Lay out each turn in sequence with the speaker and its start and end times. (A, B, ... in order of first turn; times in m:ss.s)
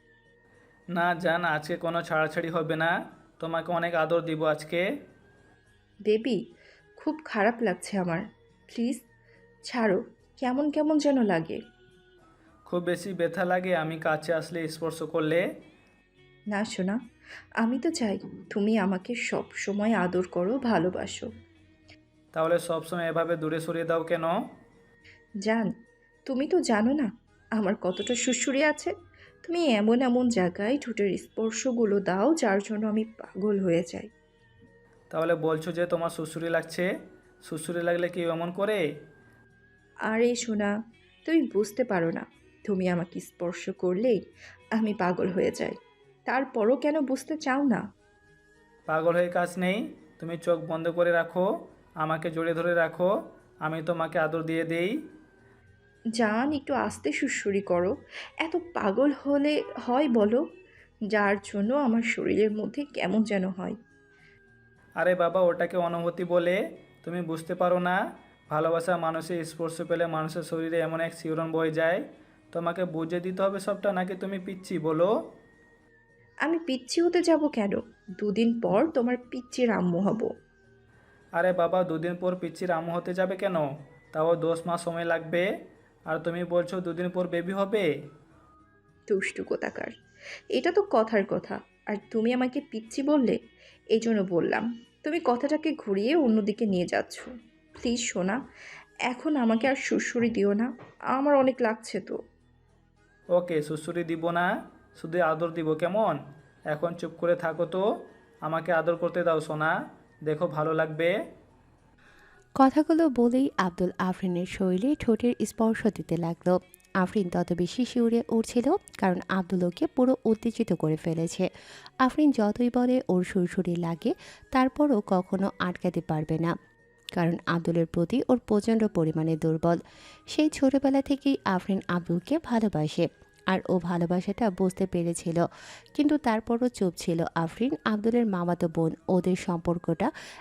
0:01.0-0:04.8 A
0:06.1-0:06.4 B
0:07.0-0:09.0 B
0:09.7-0:11.6 B
0:12.7-0:15.4 A
0:16.5-0:17.0 B
0:17.6-0:21.3 B
0:22.3-0:24.3 A
0:26.3-0:28.9 B
0:29.4-0:34.1 B
0:35.1-0:36.9 A
0:37.5-0:38.8 A
0:40.1-0:40.7 B
0:41.2-0:44.2 B
0:44.8-0:47.8 B
0:48.9-0:51.4 A
0:52.0-0:53.1 A
0:53.6-0:54.9 A
0:56.2-1:00.4 B
1:01.1-1:03.8 B
1:05.0-1:08.0 A
1:08.5-1:12.0 A
1:12.5-1:15.1 A
1:16.4-1:20.3 B
1:21.4-1:25.4 A
1:26.1-1:27.8 A
1:29.1-1:29.9 B
1:30.5-1:33.4 B
1:33.9-1:38.4 B
1:39.1-1:42.2 B
1:43.3-1:46.2 A
1:46.7-1:47.8 A
1:48.4-1:49.7 A
1:50.3-1:51.1 A
1:52.6-2:01.5 C
2:02.0-2:06.5 C
2:07.2-2:09.8 C
2:10.3-2:15.4 C
2:16.0-2:20.1 C